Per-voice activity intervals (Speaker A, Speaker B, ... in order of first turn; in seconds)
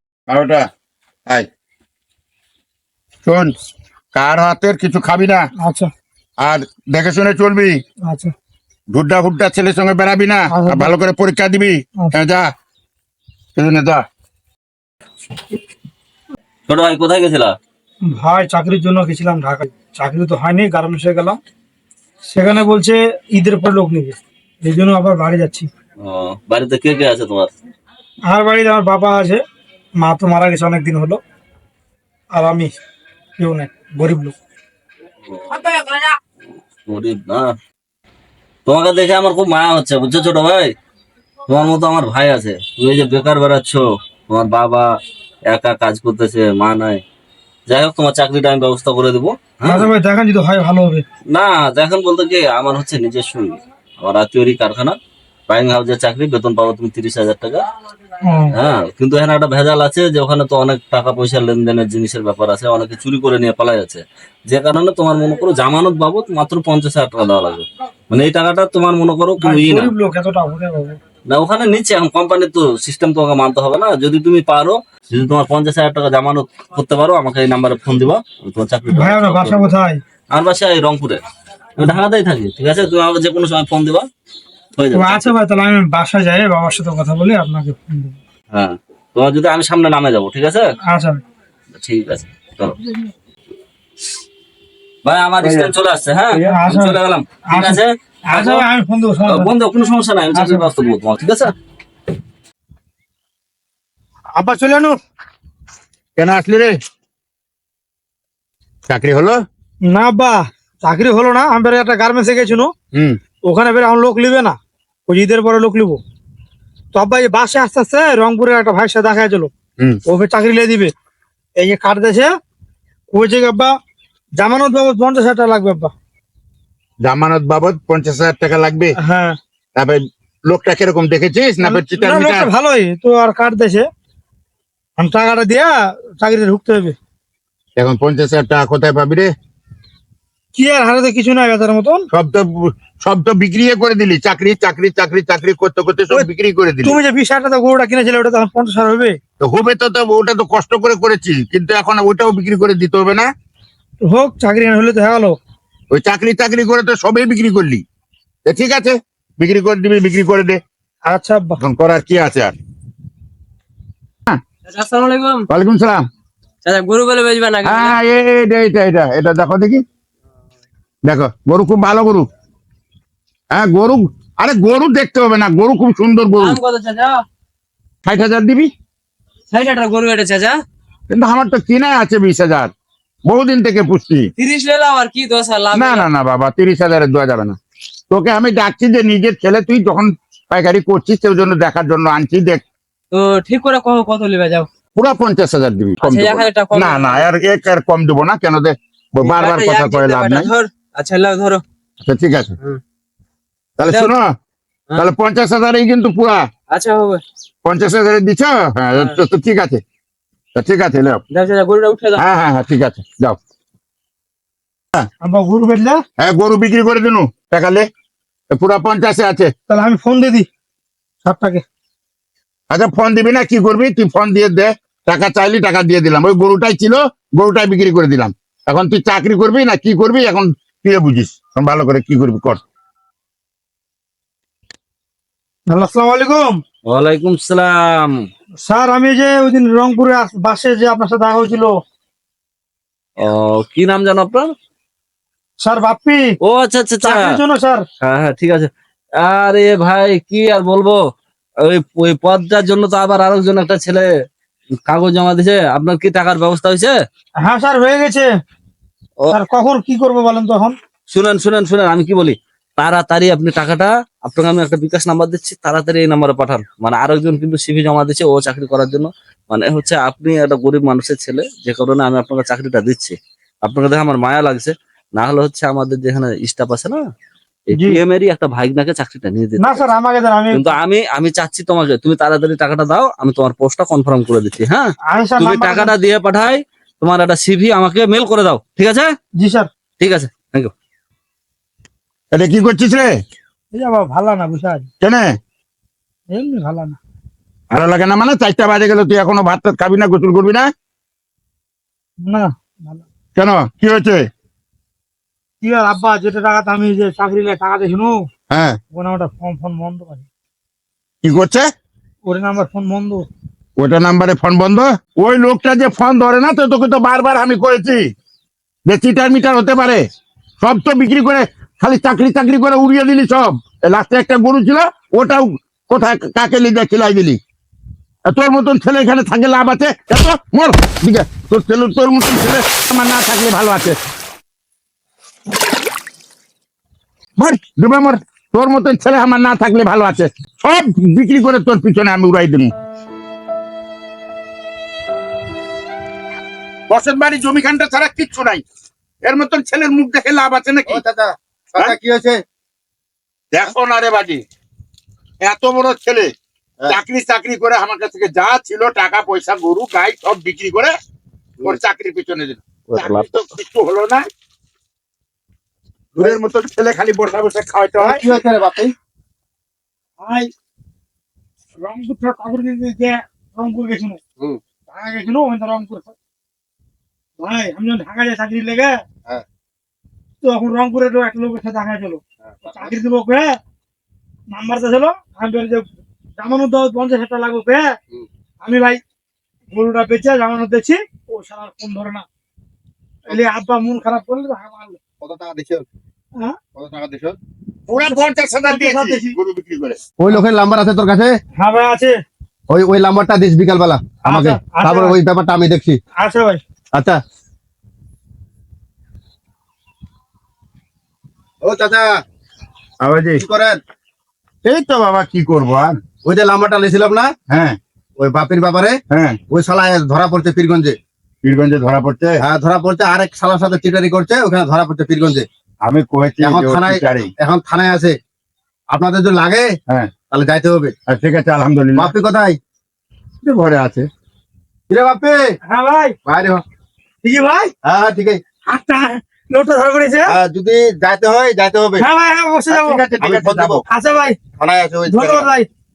Speaker A: 0.3-0.7, 3.2-3.5, 4.1-5.4, 6.4-7.8, 8.9-12.5, 13.5-14.0, 106.2-106.7, 108.9-109.4, 127.0-128.9, 129.8-132.5, 137.8-139.3, 142.1-147.0, 149.4-153.2, 155.9-157.8, 158.4-160.6, 161.6-162.5, 165.5-166.0, 167.6-169.8, 171.0-172.3, 173.5-176.6, 178.0-178.7, 181.1-182.7, 183.2-184.3, 185.7-187.6, 188.1-192.6, 194.9-200.5, 202.0-202.5, 203.8-204.3, 204.9-206.5, 207.6-209.8, 210.5-211.2, 212.2-213.4, 216.2-217.8, 218.5-219.5, 222.7-232.6, 292.3-293.1, 295.0-295.3, 297.7-300.7, 303.3-304.2, 308.5-308.8, 311.2-311.6, 313.8-318.1, 318.9-320.0, 320.6-327.4, 328.3-334.0, 337.4-342.7, 346.9-348.6, 349.2-351.0, 353.5-354.4, 355.4-356.3, 356.9-360.9, 361.6-364.2, 366.1-368.4, 397.9-400.0, 413.0-413.4, 414.6-415.9, 417.5-417.8, 419.1-419.4, 421.4-422.4, 425.8-427.3, 431.1-432.1, 433.4-434.1, 442.7-443.8
Speaker B: 5.6-5.9, 8.0-8.3, 10.5-10.9, 18.1-21.4, 22.3-25.7, 28.3-29.4, 30.0-31.2, 32.3-32.7, 33.4-34.3, 49.6-51.0, 58.2-58.5, 69.4-71.0, 78.9-80.0, 84.9-88.2, 90.8-91.2, 96.3-97.0, 97.5-99.5, 100.3-100.7, 104.3-104.9, 109.8-112.7, 113.4-114.5, 115.1-116.0, 116.9-119.5, 120.0-120.9, 121.6-122.3, 123.1-123.7, 124.4-125.9, 129.0-129.4, 131.6-133.9, 135.0-136.9, 140.6-142.0, 146.8-149.2, 154.0-155.4, 161.1-161.6, 215.2-216.0, 219.7-220.4, 221.2-221.6, 235.7-236.6, 238.6-241.8, 245.6-246.2, 247.0-247.8, 257.4-258.3, 259.3-260.7, 277.7-278.0, 279.6-280.7, 285.1-285.9, 289.3-289.7, 293.7-294.9, 296.3-297.0, 302.2-303.0, 305.6-308.2, 308.9-310.2, 312.2-313.2, 370.2-370.5, 371.8-374.2, 374.9-376.1, 377.4-379.0, 380.4-383.6, 384.5-388.0, 388.6-389.0, 389.7-392.2, 393.3-395.0, 398.6-399.3, 401.6-402.1, 404.2-405.1, 406.2-406.6, 435.6-436.2, 437.2-437.7, 438.7-440.3, 442.0-443.0, 443.9-444.4, 445.1-445.7
Speaker C: 16.7-17.5, 26.0-27.5, 35.2-36.1, 36.9-37.5, 38.6-40.7, 41.5-44.9, 45.5-47.0, 47.7-49.9, 51.3-55.0, 55.5-57.6, 58.5-69.9, 71.3-79.7, 80.3-81.2, 81.8-84.1, 84.8-85.3, 88.5-90.7, 91.7-92.8, 95.0-98.6, 99.2-101.5, 236.9-238.2, 243.2-244.5, 246.4-247.4, 248.0-248.7, 249.2-251.0, 251.6-254.1, 254.8-256.9, 261.1-277.1, 277.7-279.9, 280.5-289.1, 290.0-290.7, 362.9-363.2
Speaker D: 164.7-165.5, 166.6-168.0, 176.4-177.2, 179.5-180.6, 184.4-186.1, 193.1-194.7, 196.0-197.3, 199.2-201.6, 203.8-204.1, 206.7-207.2, 211.3-212.2
Speaker E: 350.9-352.4, 368.0-368.9, 382.6-382.9, 395.2-395.9, 396.8-397.4, 400.2-401.4, 402.7-406.0, 411.6-412.1, 413.4-413.8, 416.2-417.3, 418.2-419.0, 419.5-420.9, 422.4-425.4, 426.4-428.1, 428.9-429.7, 430.3-430.9, 431.9-432.6, 434.9-435.4, 436.2-436.6, 437.8-438.4, 440.3-442.1, 443.2-443.8, 444.6-445.5